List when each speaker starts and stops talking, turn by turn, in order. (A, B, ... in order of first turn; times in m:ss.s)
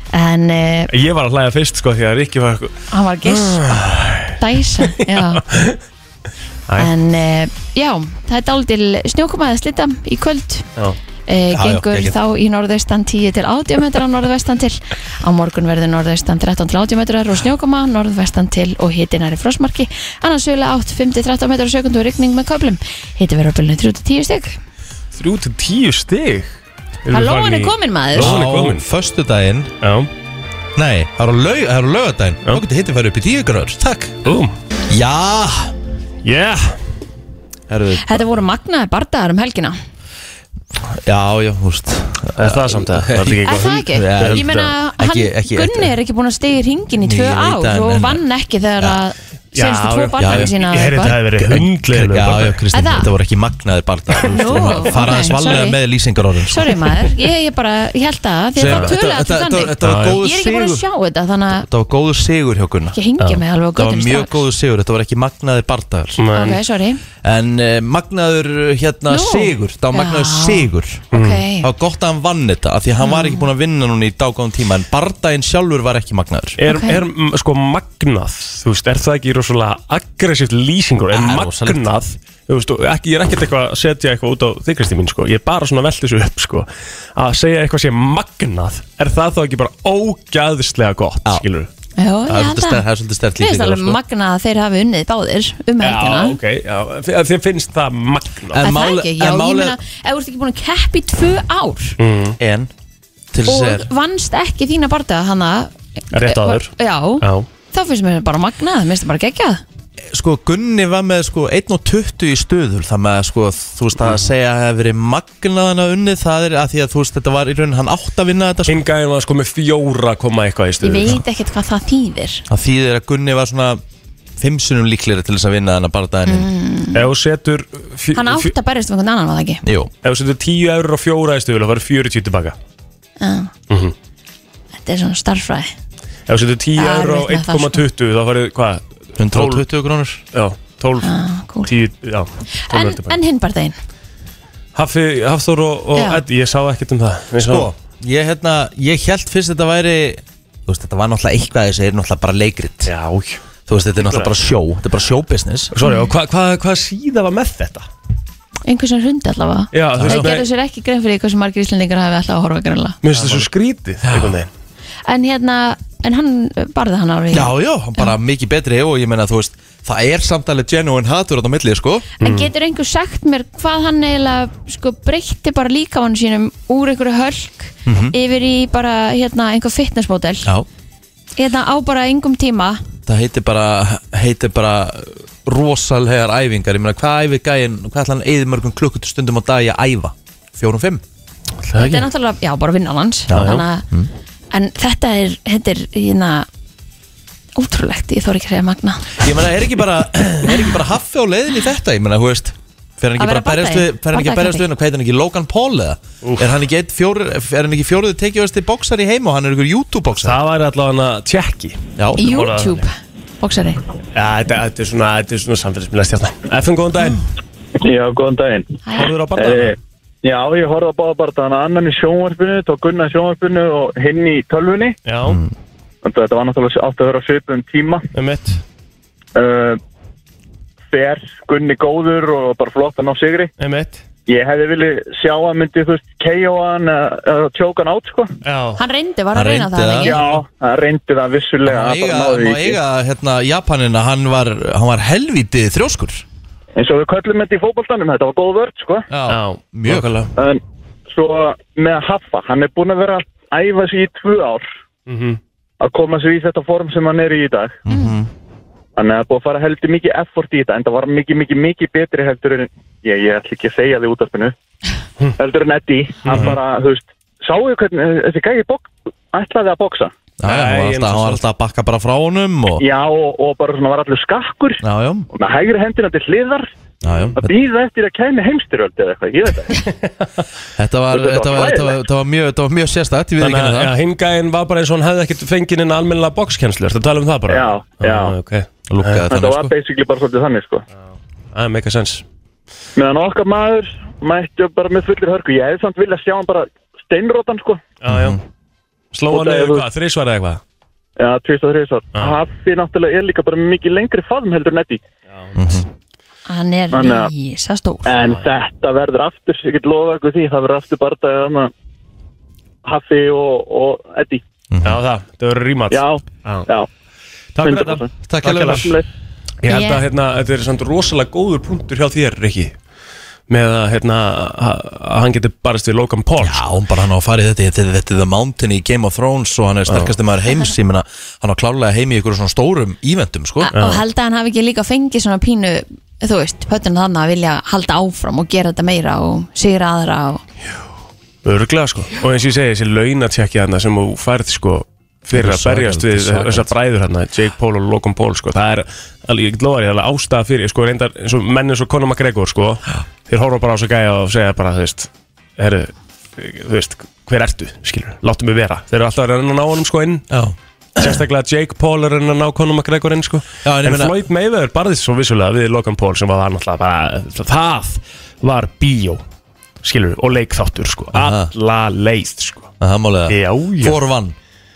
0:00.1-0:00.9 A
0:00.9-0:05.8 B
0:02.9-0:03.7 A
0:04.4-0:05.4 A
0:06.8-0:10.7 A
0:11.3-0:24.6 A
0:11.5-0:12.2 C
0:25.1-0:28.8 B
0:27.1-0:28.3 A
0:28.2-0:29.7 C
0:29.8-0:30.1 B
0:30.8-0:33.8 C
0:33.8-0:34.5 B
0:34.9-0:35.7 C
0:36.2-0:36.8 B
0:37.7-0:38.2 C
0:38.0-0:39.8 A
0:40.8-0:45.9 C
0:42.4-0:44.7 B
0:43.4-0:51.2 A
0:47.0-0:48.2 C
0:49.6-0:52.6 B
0:50.2-0:56.9 C
0:52.7-0:53.1 A
0:54.3-0:55.8 A
0:56.5-1:01.7 A
0:58.6-1:00.9 C
0:58.7-0:58.9 B
0:59.8-1:00.2 B
1:01.6-1:03.0 C
1:02.9-1:04.4 A
1:03.8-1:06.2 C
1:06.2-1:06.6 B
1:06.3-1:07.0 A
1:07.2-1:11.1 C
1:09.1-1:11.7 A
1:11.1-1:11.4 B
1:11.6-1:16.6 C
1:13.0-1:13.5 A
1:16.6-1:31.7 B
1:16.7-1:17.0 A
1:21.1-1:21.9 C
1:32.0-1:32.8 A
1:32.3-1:34.0 C
1:33.4-1:36.4 A
1:35.8-1:38.6 B
1:38.5-1:39.8 C
1:38.6-1:42.0 A
1:42.0-1:42.4 B
1:42.4-1:42.7 C
1:43.3-1:43.9 C
1:43.5-1:49.6 A
1:46.1-1:47.5 B
1:50.1-1:58.8 C
1:58.7-2:01.2 B
2:00.8-2:02.4 A
2:02.5-2:03.8 C
2:04.4-2:06.5 C
2:06.3-2:07.1 A
2:06.9-2:08.5 B
2:08.1-2:09.6 A
2:09.6-2:09.9 C
2:10.0-2:12.6 B
2:13.2-2:13.5 A
2:13.7-2:13.9 B
2:14.8-2:15.7 A
2:16.3-2:19.6 B
2:16.8-2:17.8 A
2:19.2-2:20.2 C
2:20.3-2:21.1 B
2:21.0-2:21.7 A
2:21.6-2:23.2 B
2:22.7-2:23.8 A
2:24.8-2:27.7 B
2:26.0-2:26.2 A
2:27.4-2:32.9 C
2:32.9-2:33.4 B
2:33.7-2:35.7 C
2:34.0-2:34.3 B
2:35.7-2:37.9 B
2:35.8-2:36.1 A
2:38.7-2:43.0 A
2:39.7-2:40.5 B
2:40.0-2:40.4 C
2:43.0-2:44.5 B
2:43.1-2:43.5 C
2:44.0-2:44.4 C
2:45.1-2:48.1 A
2:47.3-2:52.1 C
2:52.2-2:52.5 B
2:52.2-3:00.5 A
2:57.9-2:58.2 C
3:01.4-3:02.8 A
3:03.1-3:11.0 C
3:11.6-3:12.1 B
3:11.8-3:13.9 A
3:13.3-3:14.1 C
3:13.3-3:13.6 B
3:14.5-3:16.5 A
3:17.6-3:19.2 A
3:19.2-3:30.4 C
3:23.2-3:24.7 A
3:30.2-3:32.8 B
3:32.0-3:32.3 C
3:32.2-3:33.8 A
3:34.1-3:37.2 B
3:37.8-3:38.8 D
3:38.8-3:39.1 A
3:38.9-3:39.8 B
3:39.3-3:45.0 D
3:45.1-3:45.4 B
3:45.2-3:45.5 C
3:46.0-3:48.0 D
3:48.1-3:48.6 B
3:49.4-3:49.8 D
3:50.9-3:53.5 D
3:53.6-3:54.0 B
3:54.3-3:58.3 D
3:58.4-3:58.8 B
3:58.8-4:00.2 A
3:59.3-4:00.2 C
4:00.0-4:02.8 D
4:01.6-4:06.2 C
4:06.8-4:09.1 D
4:09.1-4:10.2 C
4:09.3-4:10.3 B
4:10.4-4:10.6 D
4:11.1-4:14.6 D
4:15.1-4:15.4 B
4:15.8-4:17.8 D
4:17.8-4:18.3 C
4:17.9-4:18.2 A
4:19.0-4:24.6 D
4:25.4-4:30.1 D
4:26.2-4:26.6 B
4:30.4-4:32.8 C
4:30.4-4:31.4 B
4:32.8-4:34.8 D
4:34.8-4:35.3 C
4:35.3-4:36.7 D
4:37.0-4:37.5 C
4:37.0-4:37.4 B
4:37.4-4:39.8 D
4:40.8-4:43.9 C
4:41.1-4:42.0 D
4:43.4-4:49.3 B
4:47.5-4:48.4 D
4:48.9-4:49.7 C
4:49.3-4:50.8 D
4:51.5-4:52.2 B
4:53.0-4:57.8 D
4:58.0-4:58.4 B
4:58.1-4:58.4 C
4:59.1-5:00.6 B
4:59.3-4:59.8 D
5:01.2-5:05.0 D
5:05.6-5:05.9 C
5:06.5-5:08.2 A
5:06.9-5:07.3 D
5:08.1-5:11.7 D
5:12.8-5:14.4 D
5:14.7-5:15.0 C
5:14.8-5:16.7 B
5:15.9-5:16.9 D
5:17.6-5:18.9 B
5:17.6-5:19.0 D
5:18.3-5:19.0 C
5:19.6-5:22.8 B
5:19.7-5:20.0 A
5:23.5-5:26.6 B
5:26.4-5:33.7 C
5:29.9-5:30.1 B
5:33.6-5:40.4 A
5:33.7-5:34.0 B
5:41.4-6:00.3 B
5:45.3-5:46.7 C
6:00.3-6:01.2 C
6:01.0-6:09.2 B
6:03.6-6:04.2 C
6:09.8-6:12.7 B
6:11.1-6:11.5 C
6:12.8-6:14.4 C
6:13.3-6:14.0 B